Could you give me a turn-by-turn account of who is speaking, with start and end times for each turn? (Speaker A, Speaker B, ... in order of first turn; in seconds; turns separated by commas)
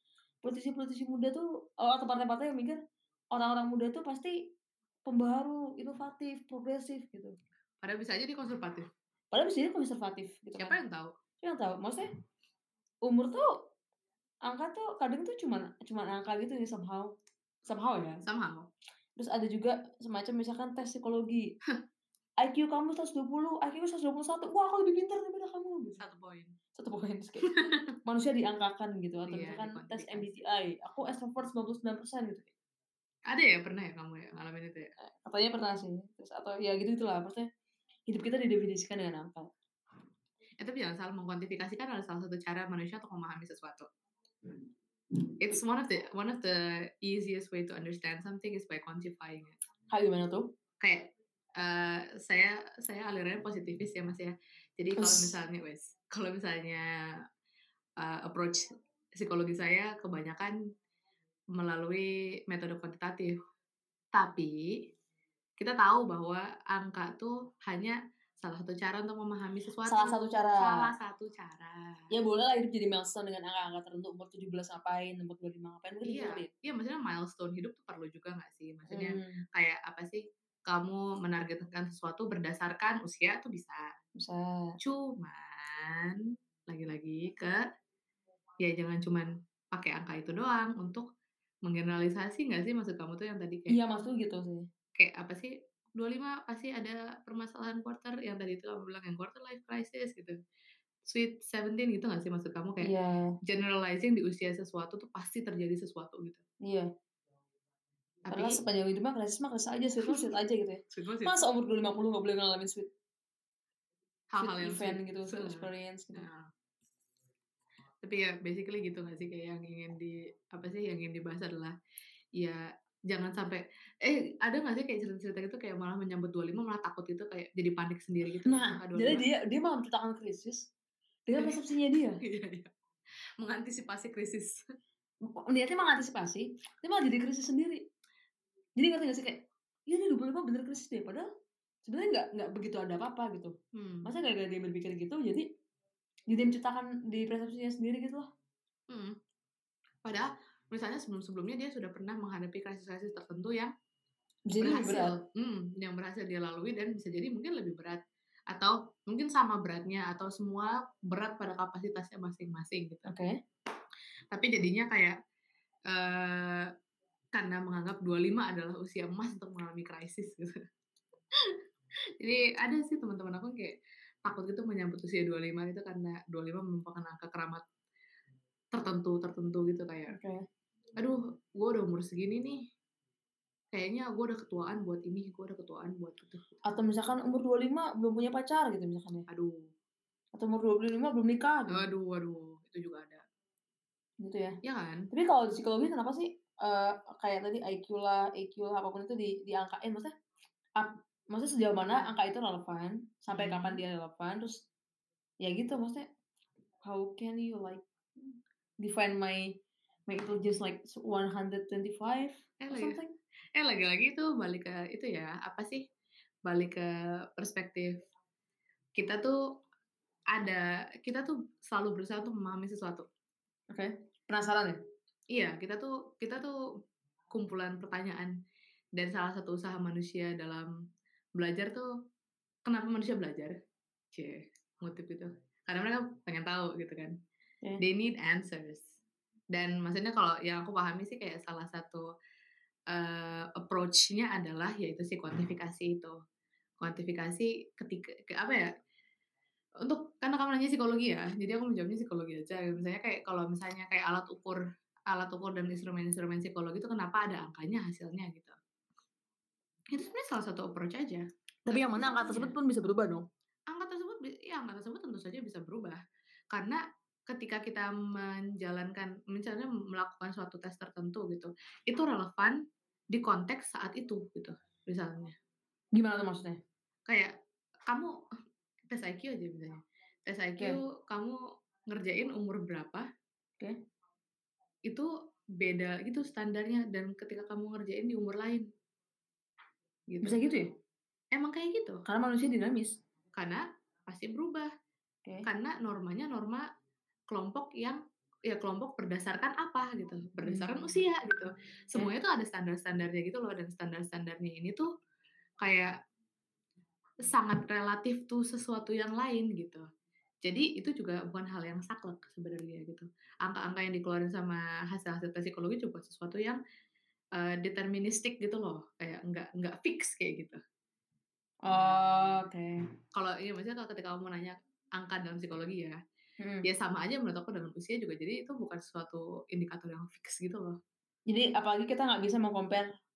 Speaker A: 0.4-2.8, Speaker A: 3.3-4.4, Speaker A: 5.1-7.4, Speaker B: 7.8-8.9, Speaker A: 9.3-10.8, Speaker B: 10.6-11.1, Speaker A: 11.4-12.1, Speaker A: 13.1-13.5, Speaker A: 14.4-17.1, Speaker A: 17.6-18.2, Speaker B: 18.2-18.7, Speaker A: 19.2-21.5, Speaker A: 22.4-26.0, Speaker B: 26.0-26.6, Speaker A: 26.8-27.5, Speaker B: 27.5-27.8, Speaker A: 28.1-32.5, Speaker B: 29.3-30.4, Speaker B: 33.3-34.9, Speaker A: 35.0-37.5, Speaker A: 38.1-39.5, Speaker B: 40.6-43.9, Speaker B: 45.4-49.6, Speaker A: 49.9-50.5, Speaker B: 50.8-56.8, Speaker A: 55.0-55.4, Speaker B: 58.0-58.7, Speaker B: 59.2-60.5, Speaker B: 61.5-63.4, Speaker B: 64.1-64.8, Speaker B: 65.6-72.1, Speaker A: 69.8-70.9, Speaker A: 72.1-76.5, Speaker B: 76.0-83.8, Speaker A: 78.9-79.4, Speaker A: 84.2-84.8, Speaker B: 84.8-87.6, Speaker B: 88.6-91.0, Speaker B: 91.7-93.8, Speaker A: 93.7-94.7, Speaker B: 95.0-100.4, Speaker B: 101.1-102.9, Speaker A: 102.8-103.3, Speaker B: 103.5-106.4, Speaker B: 108.2-108.6, Speaker A: 108.3-112.9, Speaker B: 110.0-110.3, Speaker B: 110.9-111.4, Speaker B: 114.3-116.5, Speaker A: 114.4-116.3, Speaker B: 118.0-121.7, Speaker B: 122.4-129.3, Speaker A: 128.4-130.7, Speaker A: 131.3-132.2, Speaker B: 131.3-131.6, Speaker B: 132.2-132.7, Speaker B: 133.4-134.6, Speaker A: 135.3-137.8, Speaker A: 138.8-141.3, Speaker A: 141.8-145.4, Speaker B: 143.7-144.1, Speaker A: 146.3-148.3, Speaker B: 148.9-149.2, Speaker B: 150.0-153.7, Speaker A: 154.5-155.2, Speaker B: 154.6-163.1, Speaker A: 163.1-163.3, Speaker B: 164.3-165.2, Speaker B: 165.9-166.7, Speaker B: 167.3-170.5, Speaker B: 172.2-177.6, Speaker B: 178.7-180.2, Speaker A: 180.1-180.4, Speaker B: 181.0-182.6, Speaker B: 183.7-186.5, Speaker A: 186.7-189.3, Speaker B: 189.3-189.7, Speaker A: 190.3-191.9, Speaker B: 191.7-193.2, Speaker A: 194.2-194.6, Speaker B: 194.6-195.1, Speaker A: 195.1-200.1, Speaker A: 200.8-204.7, Speaker B: 203.3-203.8, Speaker A: 205.4-206.0, Speaker A: 206.8-213.1, Speaker B: 212.6-213.0, Speaker B: 213.6-215.8, Speaker B: 216.4-218.0, Speaker B: 219.0-219.6, Speaker B: 220.3-223.1, Speaker A: 223.7-224.8, Speaker B: 225.3-226.6, Speaker B: 227.3-228.3, Speaker B: 228.9-230.7, Speaker B: 231.4-231.9, Speaker B: 232.7-233.5, Speaker B: 234.1-237.1, Speaker B: 237.8-238.9, Speaker B: 239.5-242.0, Speaker B: 242.9-246.2, Speaker B: 246.8-248.7, Speaker B: 249.8-258.5, Speaker B: 259.9-262.5, Speaker A: 261.6-263.2, Speaker B: 263.7-266.0, Speaker B: 266.5-272.6, Speaker B: 273.1-275.4, Speaker A: 275.9-276.6, Speaker B: 277.1-277.3, Speaker B: 277.9-278.1, Speaker B: 278.9-283.1, Speaker B: 284.9-288.7, Speaker B: 290.1-290.4, Speaker A: 290.2-290.7, Speaker B: 291.3-292.0, Speaker A: 292.1-293.0, Speaker B: 293.3-294.7, Speaker B: 295.4-296.6, Speaker B: 297.3-304.9, Speaker A: 300.4-300.9, Speaker B: 305.6-306.0, Speaker B: 307.2-309.9, Speaker B: 310.4-316.6, Speaker B: 317.4-320.6, Speaker A: 321.6-322.8, Speaker B: 321.7-322.4, Speaker B: 323.1-326.0, Speaker A: 326.4-326.7, Speaker B: 326.6-330.8, Speaker A: 331.3-332.9